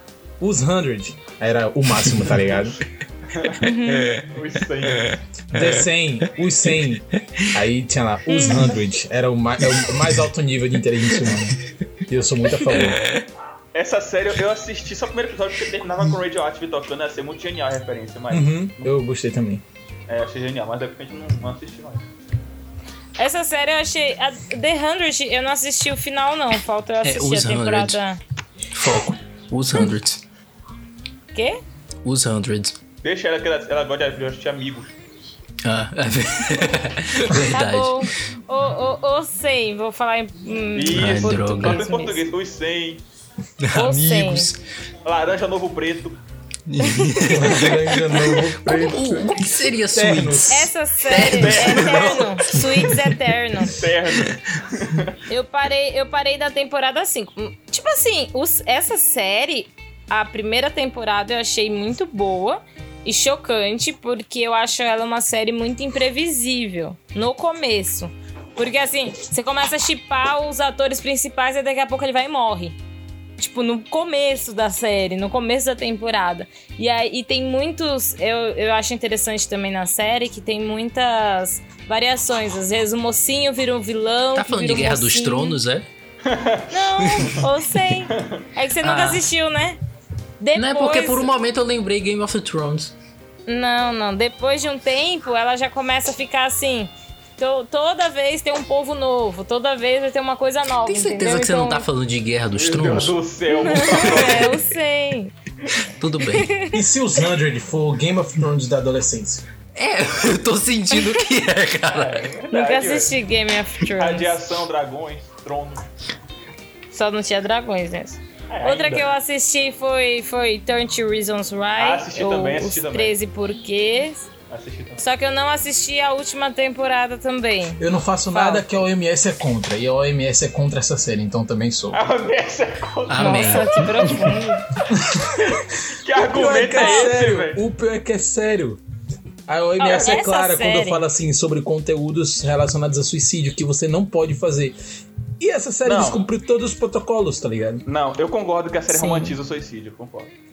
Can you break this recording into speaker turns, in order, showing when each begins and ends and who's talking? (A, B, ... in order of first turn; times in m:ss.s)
0:00.4-0:02.8 A
0:03.3-0:03.7 B
0:03.6-0:04.2 C
0:03.9-0:04.3 D
0:04.2-0:05.1 B
0:05.0-0:05.8 D
0:05.5-0:13.0 A
0:07.2-0:07.5 D
0:08.3-0:08.8 C
0:09.8-0:10.1 D
0:11.1-0:11.4 D
0:12.6-0:13.2 D
0:13.7-0:18.9 B
0:18.3-0:19.6 A
0:20.1-0:22.1 B
0:23.2-0:28.2 C
0:27.0-0:28.0 D
0:28.7-0:30.2 D
0:31.3-0:31.6 C
0:32.0-0:32.8 D
0:33.0-0:35.0 B
0:35.6-0:38.1 D
0:37.5-0:42.2 C
0:40.7-0:43.0 B
0:40.9-0:41.8 D
0:43.6-0:44.6 D
0:43.7-0:44.5 C
0:45.0-0:46.2 B
0:46.7-0:53.1 D
0:46.8-0:47.2 C
0:47.2-0:50.7 A
0:50.5-0:53.8 C
0:51.1-0:52.4 B
0:53.7-0:55.2 B
0:55.3-1:12.8 C
1:13.4-1:25.6 C
1:24.3-1:25.8 D
1:26.2-1:27.4 B
1:26.7-1:29.8 C
1:27.0-1:27.4 D
1:28.2-1:28.4 B
1:28.8-1:29.2 D
1:30.4-1:31.3 C
1:30.5-1:33.0 D
1:33.5-1:41.8 C
1:40.8-1:43.2 D
1:42.5-1:44.6 B
1:43.5-1:45.3 C
1:45.8-1:46.5 D
1:46.2-1:46.8 C
1:46.7-1:49.4 A
1:49.8-1:52.3 D
1:50.9-1:51.2 C
1:51.9-1:53.1 B
1:52.5-1:54.4 C
1:53.9-1:55.9 B
1:56.9-2:04.3 C
1:58.5-1:59.1 B
2:01.8-2:03.1 B
2:04.5-2:05.0 B
2:05.0-2:07.8 C
2:07.8-2:12.0 A
2:08.3-2:08.6 C
2:11.9-2:13.7 B
2:13.1-2:14.3 D
2:13.2-2:14.6 C
2:14.9-2:18.8 A
2:15.5-2:17.6 B
2:16.8-2:17.1 C
2:19.5-2:24.8 A
2:19.8-2:21.0 C
2:19.8-2:20.2 B
2:25.4-2:27.8 A
2:25.8-2:26.2 B
2:27.8-2:30.3 B
2:28.9-2:29.4 A